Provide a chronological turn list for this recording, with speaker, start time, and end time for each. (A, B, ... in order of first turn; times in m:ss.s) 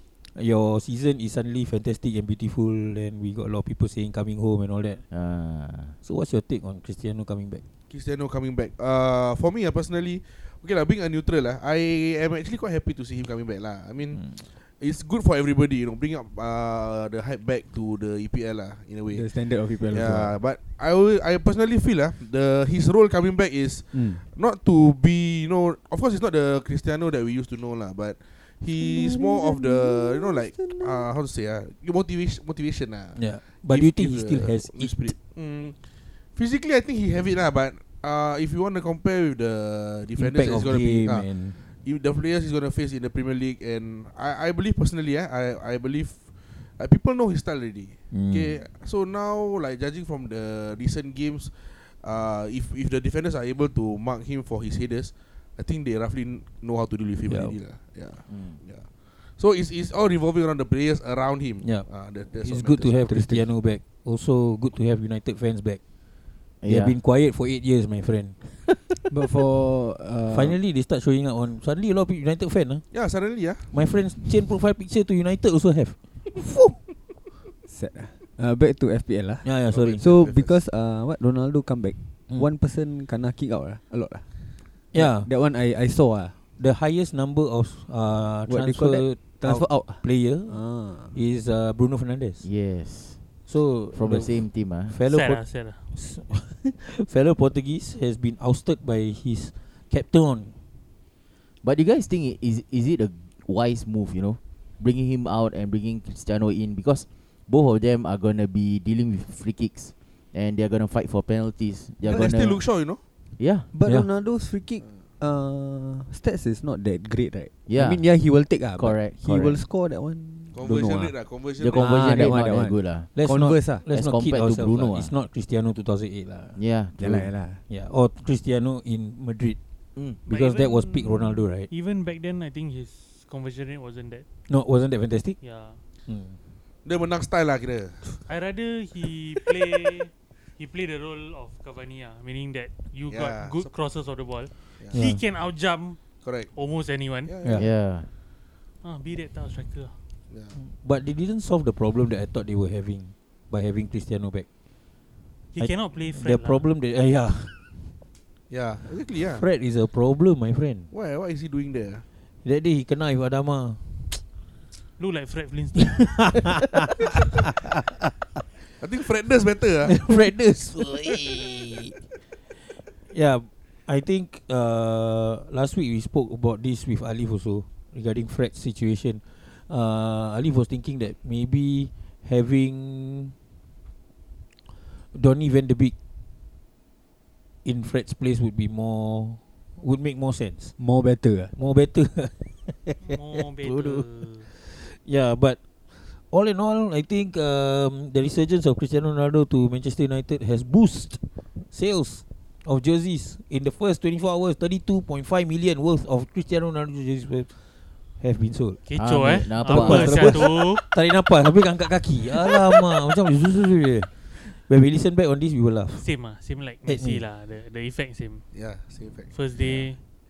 0:00.3-0:05.0 A
0:05.1-0:06.0 B
0:06.0-0:07.6 A
0:07.9-1:03.1 C
0:19.1-0:20.4 D
0:23.9-0:24.2 D
0:28.8-0:31.1 D
0:33.2-0:35.2 A
0:40.2-0:41.6 A
0:48.1-0:48.6 A
0:57.3-0:57.6 A
0:58.3-0:58.6 B
1:01.6-1:05.8 A
1:03.1-1:03.5 D
1:06.6-1:07.0 B
1:06.6-1:08.4 A
1:09.1-1:10.6 D
1:10.3-1:12.9 A
1:12.9-1:13.7 C
1:13.6-1:16.8 A
1:17.7-1:26.4 D
1:19.4-1:20.2 A
1:19.7-1:20.6 C
1:24.9-1:25.3 A
1:26.6-1:32.5 A
1:28.5-1:31.2 D
1:32.4-1:33.2 B
1:33.5-1:40.5 A
1:33.9-1:35.0 B
1:35.1-1:35.8 E
1:41.6-1:52.7 B
1:52.0-1:53.0 C
1:53.4-1:53.7 B
1:53.7-2:00.6 D
1:57.7-1:59.6 B
2:00.5-2:01.8 C
2:00.6-2:01.2 A
2:01.6-2:03.1 B
2:01.7-2:03.8 D
2:01.9-2:02.4 A
2:03.1-2:06.6 A
2:03.9-2:05.1 B
2:06.6-2:07.3 B
2:07.0-2:07.6 D
2:07.7-2:09.6 A
2:10.0-2:10.2 B
2:10.2-2:11.7 A
2:10.3-2:14.3 E
2:14.5-2:15.4 A
2:15.4-2:15.8 E
2:16.1-2:16.4 A
2:16.8-2:18.2 C
2:18.2-2:27.3 E
2:23.1-2:23.7 C
2:24.9-2:25.2 A
2:26.2-2:26.5 C
2:27.2-2:27.7 C
2:27.6-2:28.1 B
2:28.8-2:30.0 E
2:30.3-2:30.6 C
2:30.5-2:34.5 A
2:35.5-2:36.7 E
2:35.6-2:37.9 A
2:38.5-2:39.5 C
2:39.4-2:40.9 A
2:40.9-2:42.0 C
2:42.4-2:44.2 A
2:45.0-2:46.4 E
2:45.8-2:47.5 A
2:48.8-2:50.1 C
2:49.9-2:52.0 A
2:53.1-3:03.3 A
3:05.1-3:05.9 A
3:07.6-3:10.8 A
3:10.8-3:11.5 D
3:11.6-3:27.6 A
3:13.0-3:14.5 E
3:28.2-3:28.8 A
3:28.9-3:30.8 E
3:29.0-3:30.6 B
3:29.6-3:36.0 A
3:36.0-3:38.6 E
3:36.9-3:37.2 A
3:38.5-3:39.8 C
3:39.3-3:40.0 E